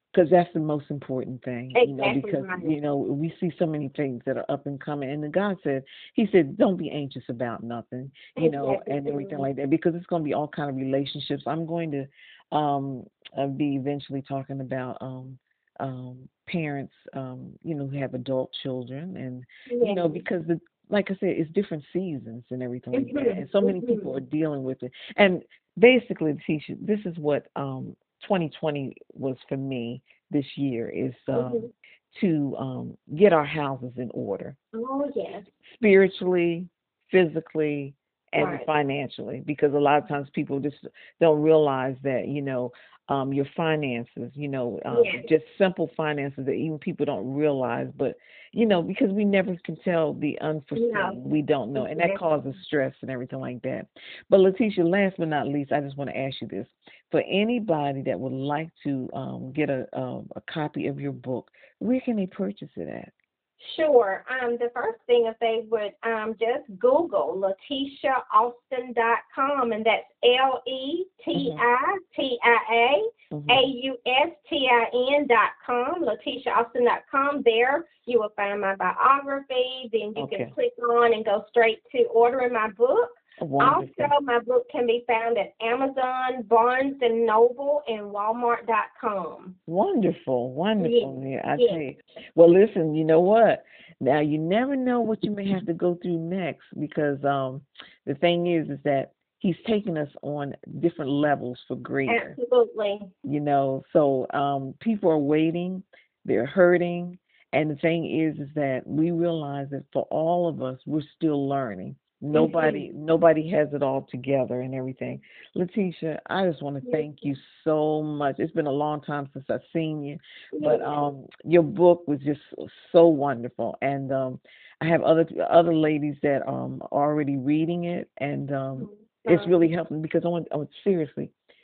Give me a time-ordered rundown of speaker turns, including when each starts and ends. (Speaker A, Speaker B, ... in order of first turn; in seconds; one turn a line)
Speaker A: 0.1-34.6
Speaker B: 1.8-2.7
Speaker B: 8.4-9.4
Speaker B: 19.7-20.2
Speaker B: 22.9-24.1
Speaker B: 31.3-31.7
Speaker B: 34.7-35.5
Speaker A: 35.7-63.1
Speaker B: 38.4-38.7
Speaker B: 44.9-45.3
Speaker B: 50.8-51.2
Speaker B: 51.8-52.2
Speaker B: 63.6-89.6
Speaker A: 71.3-71.6
Speaker A: 73.3-73.7
Speaker A: 80.2-80.5
Speaker A: 83.4-84.1
Speaker A: 89.7-102.4
Speaker B: 90.8-91.8
Speaker B: 102.1-103.1
Speaker A: 103.2-131.3
Speaker B: 112.3-112.9
Speaker B: 120.5-120.9
Speaker B: 128.8-129.6